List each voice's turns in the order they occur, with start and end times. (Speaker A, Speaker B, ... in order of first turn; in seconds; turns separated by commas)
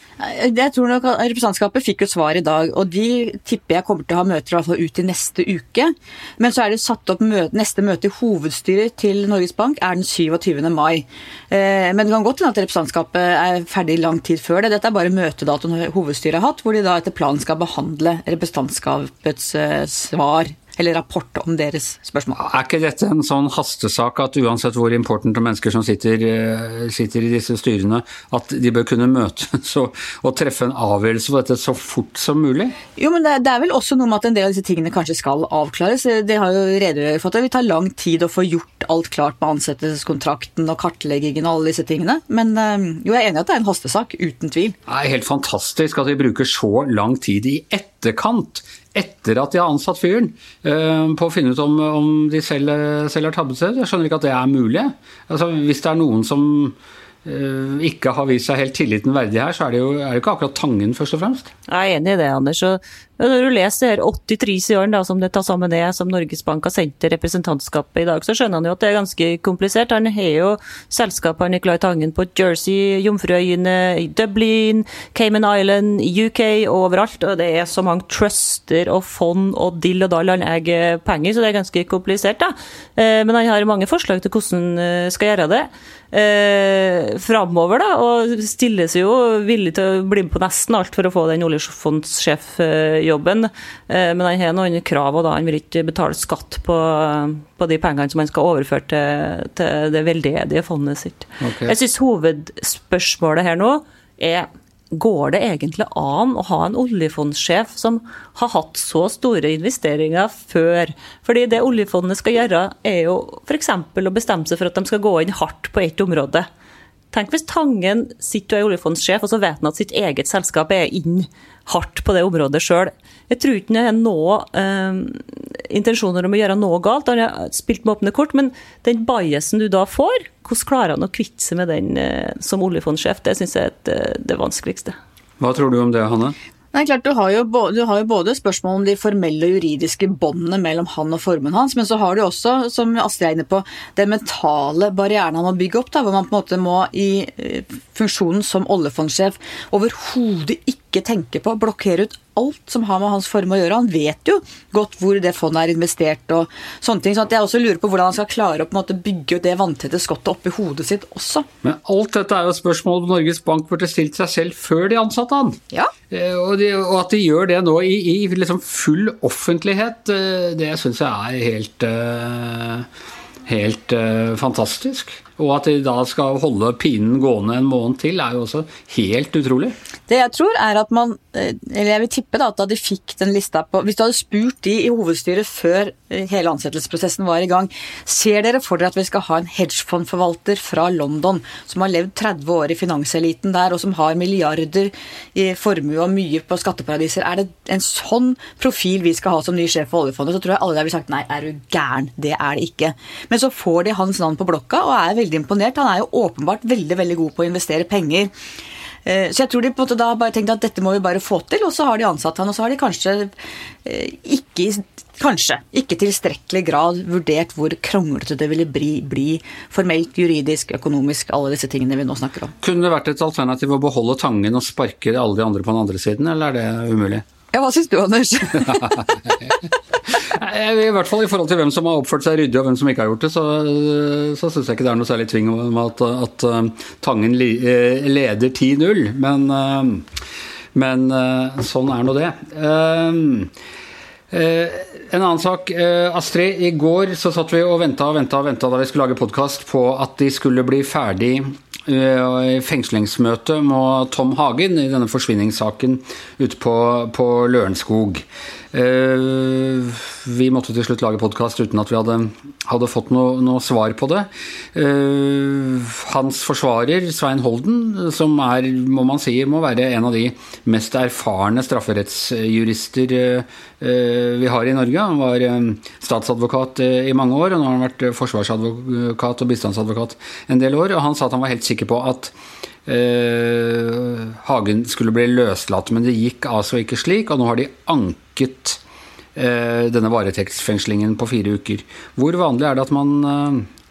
Speaker A: 0.2-22.4, Speaker B: 22.4-32.8, Speaker A: 33.0-44.7, Speaker B: 44.9-61.5, Speaker C: 61.7-116.5, Speaker B: 101.4-101.7, Speaker C: 117.1-134.9, Speaker B: 135.4-136.3, Speaker A: 136.7-161.4, Speaker B: 161.6-165.6, Speaker B: 166.1-172.8, Speaker B: 173.4-179.7, Speaker A: 180.1-208.3, Speaker A: 209.1-213.3, Speaker A: 213.8-222.5, Speaker B: 222.6-227.2, Speaker A: 227.5-229.1, Speaker B: 230.1-240.0, Speaker B: 240.7-243.5, Speaker B: 244.3-282.3, Speaker B: 282.9-288.8, Speaker B: 289.4-293.7